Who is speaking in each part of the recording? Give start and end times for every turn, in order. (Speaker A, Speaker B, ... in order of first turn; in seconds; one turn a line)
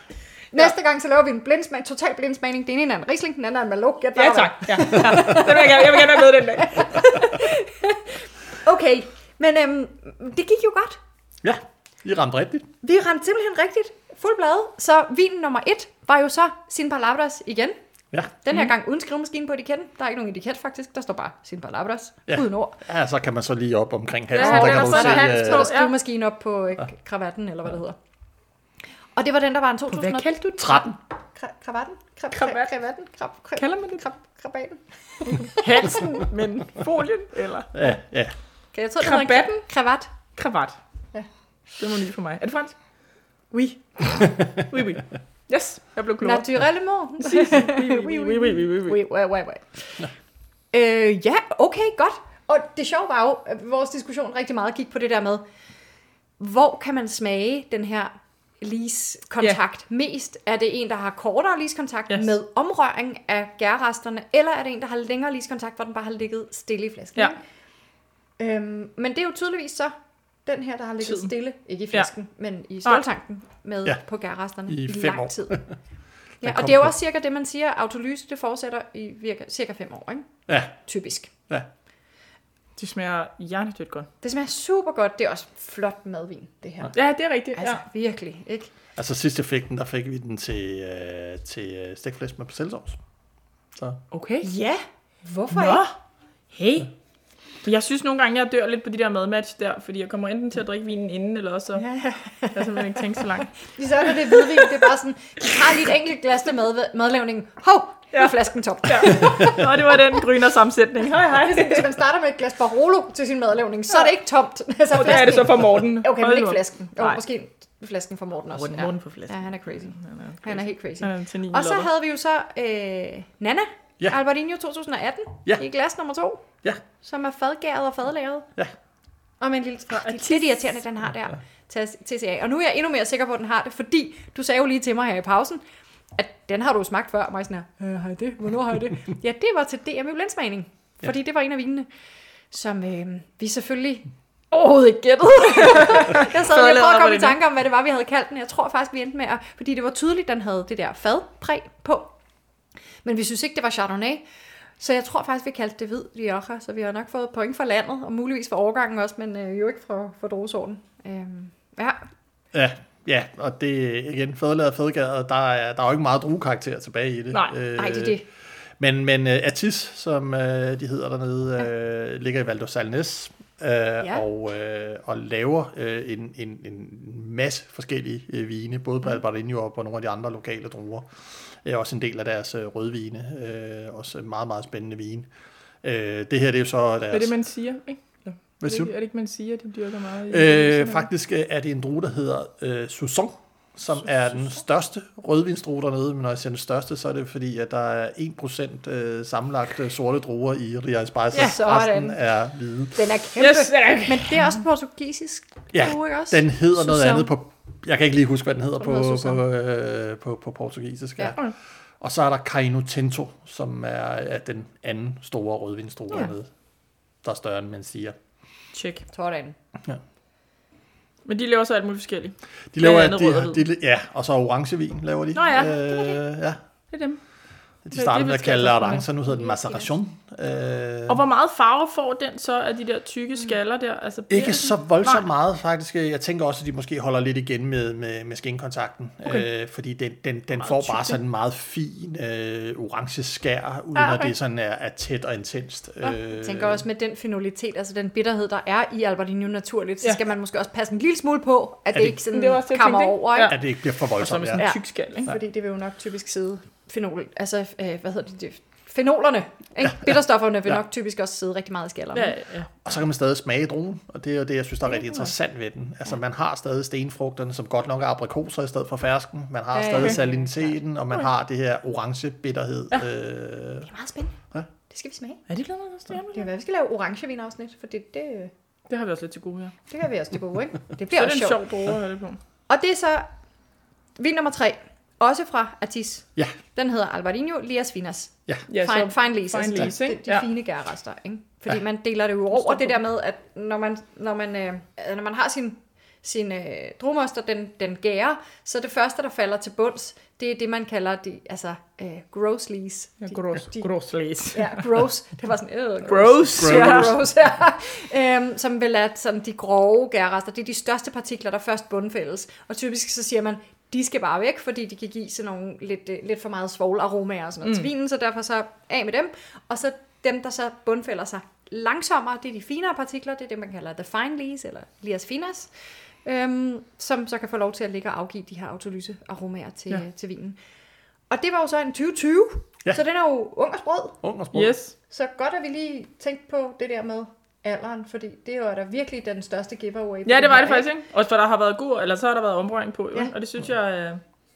Speaker A: 0.5-11.0
Speaker B: 4.2-7.1
Speaker C: 11.4-12.7
Speaker A: 12.8-17.8
Speaker A: 18.4-22.8
Speaker C: 22.3-25.7
Speaker B: 24.3-25.9
Speaker A: 24.3-28.0
Speaker A: 29.1-36.2
Speaker B: 29.9-30.8
Speaker B: 32.3-32.7
Speaker B: 33.5-34.0
Speaker B: 35.4-37.8
Speaker C: 37.7-38.3
Speaker A: 38.7-40.1
Speaker B: 39.0-39.6
Speaker B: 40.4-40.8
Speaker B: 41.8-42.7
Speaker A: 43.5-43.8
Speaker B: 44.5-46.5
Speaker A: 46.2-50.1
Speaker B: 47.2-49.0
Speaker A: 50.7-55.4
Speaker A: 56.4-67.4
Speaker A: 68.4-69.9
Speaker A: 70.5-75.6
Speaker B: 71.0-71.3
Speaker C: 74.7-75.7
Speaker A: 76.4-80.3
Speaker C: 76.4-76.9
Speaker C: 80.5-80.7
Speaker A: 80.8-81.3
Speaker B: 82.8-84.1
Speaker A: 84.2-86.9
Speaker B: 86.9-87.8
Speaker A: 87.5-88.7
Speaker C: 89.0-93.0
Speaker B: 94.1-94.5
Speaker A: 94.4-95.8
Speaker B: 95.5-95.9
Speaker B: 96.5-96.9
Speaker B: 97.6-101.8
Speaker A: 101.8-110.1
Speaker B: 102.5-104.9
Speaker B: 108.1-111.9
Speaker A: 111.1-126.5
Speaker B: 114.9-117.2
Speaker B: 118.5-121.9
Speaker A: 127.0-128.5
Speaker A: 129.4-135.6
Speaker B: 129.9-130.6
Speaker A: 136.2-141.9
Speaker A: 142.5-152.1
Speaker B: 145.6-147.4
Speaker A: 153.0-154.2
Speaker A: 154.8-162.0
Speaker C: 162.5-168.2
Speaker A: 167.7-168.2
Speaker C: 168.8-181.1
Speaker C: 181.6-185.3
Speaker C: 185.8-187.3
Speaker B: 187.1-191.1
Speaker C: 188.6-188.9
Speaker C: 190.3-203.0
Speaker A: 201.3-202.2
Speaker A: 202.9-207.3
Speaker B: 203.4-204.6
Speaker C: 205.7-211.4
Speaker A: 208.8-209.4
Speaker C: 212.0-216.5
Speaker C: 217.2-218.1
Speaker B: 218.7-219.0
Speaker A: 219.1-219.6
Speaker B: 221.2-223.7
Speaker C: 222.7-226.6
Speaker B: 225.3-225.8
Speaker A: 225.5-226.2
Speaker B: 226.9-227.2
Speaker C: 227.8-231.2
Speaker B: 227.9-229.1
Speaker A: 229.2-229.9
Speaker B: 231.1-235.3
Speaker C: 234.3-246.8
Speaker B: 240.7-241.2
Speaker B: 243.9-244.3
Speaker A: 246.3-253.6
Speaker B: 252.2-255.3
Speaker C: 253.5-254.6
Speaker A: 254.6-262.3
Speaker B: 262.1-262.7
Speaker C: 262.8-273.9
Speaker B: 265.0-265.3
Speaker A: 269.7-270.8
Speaker A: 273.9-274.4
Speaker A: 274.9-275.4
Speaker B: 275.5-276.5
Speaker A: 276.3-278.5
Speaker B: 278.9-279.7
Speaker A: 279.9-281.6
Speaker B: 281.1-282.4
Speaker A: 282.7-283.3
Speaker A: 284.2-303.9
Speaker B: 288.7-290.4
Speaker B: 292.5-292.9
Speaker B: 303.2-304.8
Speaker A: 304.5-325.7
Speaker B: 306.1-307.2
Speaker C: 306.6-307.2
Speaker B: 317.6-317.9
Speaker A: 326.2-330.6
Speaker A: 331.3-334.2
Speaker C: 334.2-334.8
Speaker B: 334.5-334.9
Speaker A: 335.1-340.9
Speaker B: 340.2-344.2